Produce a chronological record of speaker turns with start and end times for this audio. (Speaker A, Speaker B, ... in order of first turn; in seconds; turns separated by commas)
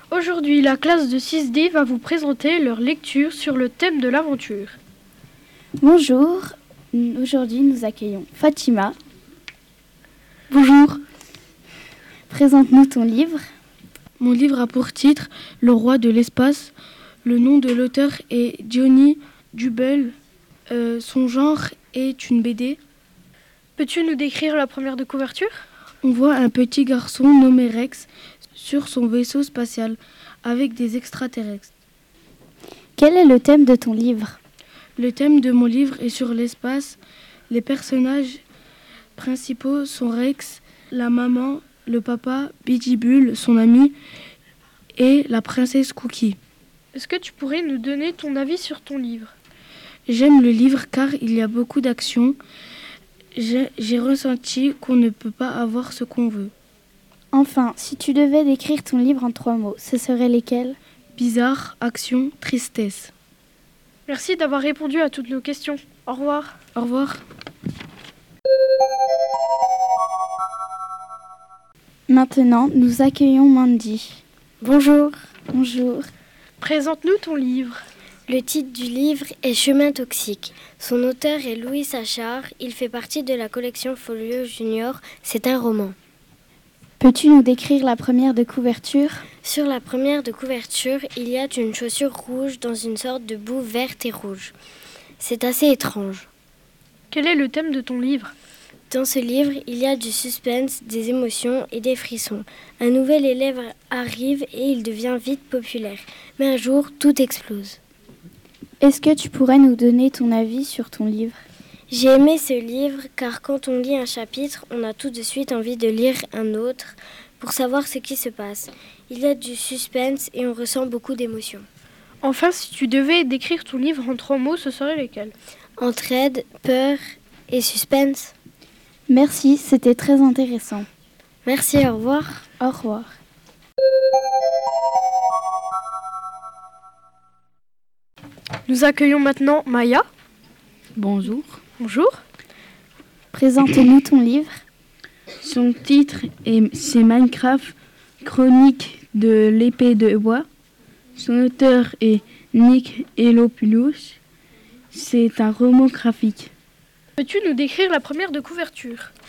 Speaker A: 0.1-4.7, Speaker B: 5.8-8.9, Speaker A: 10.5-11.0, Speaker B: 12.3-13.4, Speaker C: 14.2-16.7, Speaker C: 17.2-20.1, Speaker C: 20.7-22.8, Speaker A: 23.8-25.6, Speaker C: 26.0-31.7, Speaker B: 33.0-34.4, Speaker C: 35.0-37.0, Speaker C: 37.5-38.4, Speaker C: 39.2-44.0, Speaker C: 44.9-46.4, Speaker A: 46.9-49.3, Speaker C: 50.1-52.4, Speaker C: 53.3-56.5, Speaker B: 57.3-60.8, Speaker C: 61.1-63.1, Speaker A: 64.1-66.6, Speaker C: 66.7-67.2, Speaker B: 72.1-74.2, Speaker D: 74.6-75.2, Speaker B: 75.5-76.1, Speaker A: 76.6-77.8, Speaker D: 78.3-85.9, Speaker B: 87.0-89.2, Speaker D: 89.4-94.5, Speaker D: 95.2-96.3, Speaker A: 97.1-98.3, Speaker D: 98.9-107.8, Speaker B: 108.8-111.3, Speaker D: 111.9-121.7, Speaker A: 122.2-125.3, Speaker D: 125.8-128.3, Speaker B: 129.1-130.9, Speaker D: 131.4-132.4, Speaker B: 132.6-133.1, Speaker A: 138.7-140.1, Speaker E: 140.9-141.6, Speaker A: 141.8-142.2, Speaker B: 143.3-144.5, Speaker E: 145.4-150.4, Speaker E: 151.2-154.2, Speaker E: 154.9-156.5, Speaker A: 157.2-159.1